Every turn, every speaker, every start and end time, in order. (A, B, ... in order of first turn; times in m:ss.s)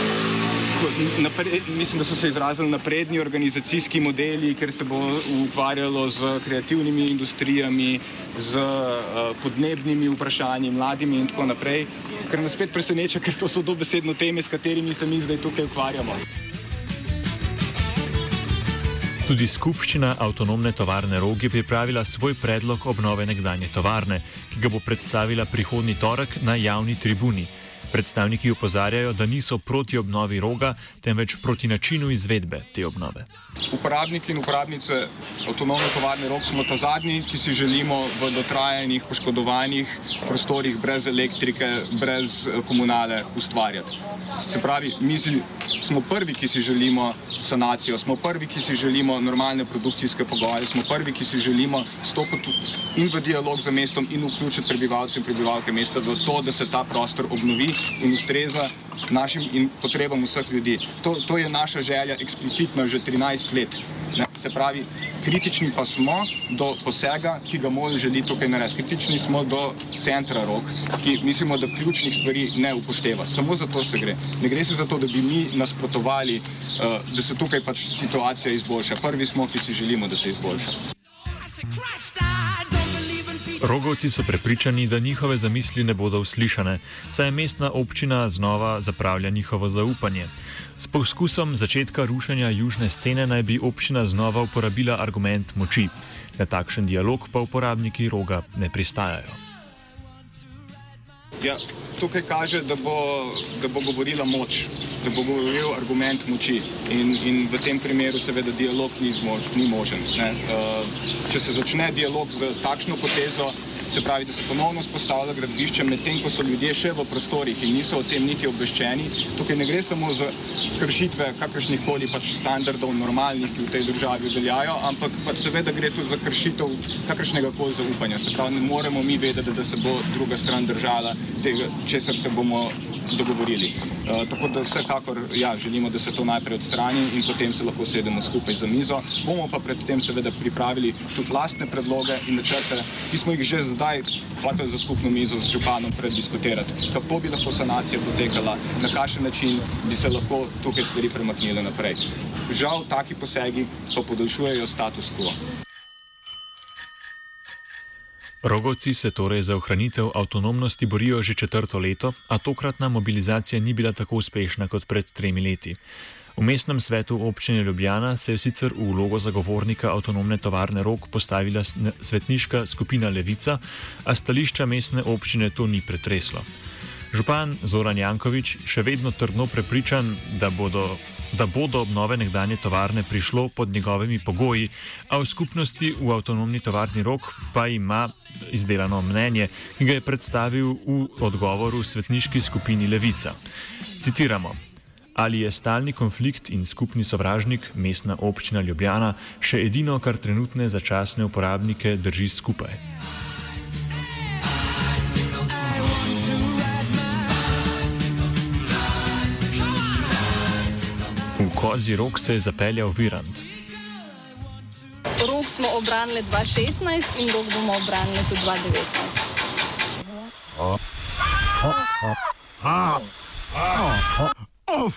0:00.8-0:16.2 A
0:19.3-0:33.3 B
0:33.7-0:43.9 A
0:44.5-1:20.8 A
1:22.8-1:39.4 B
1:41.4-2:35.4 A
2:38.4-2:45.8 B
2:46.4-2:56.5 B
2:57.1-3:13.4 B
3:14.0-3:14.6 B
3:15.2-3:22.8 B
3:25.6-3:27.2 C
3:31.4-3:33.5 B
3:35.2-3:39.2 C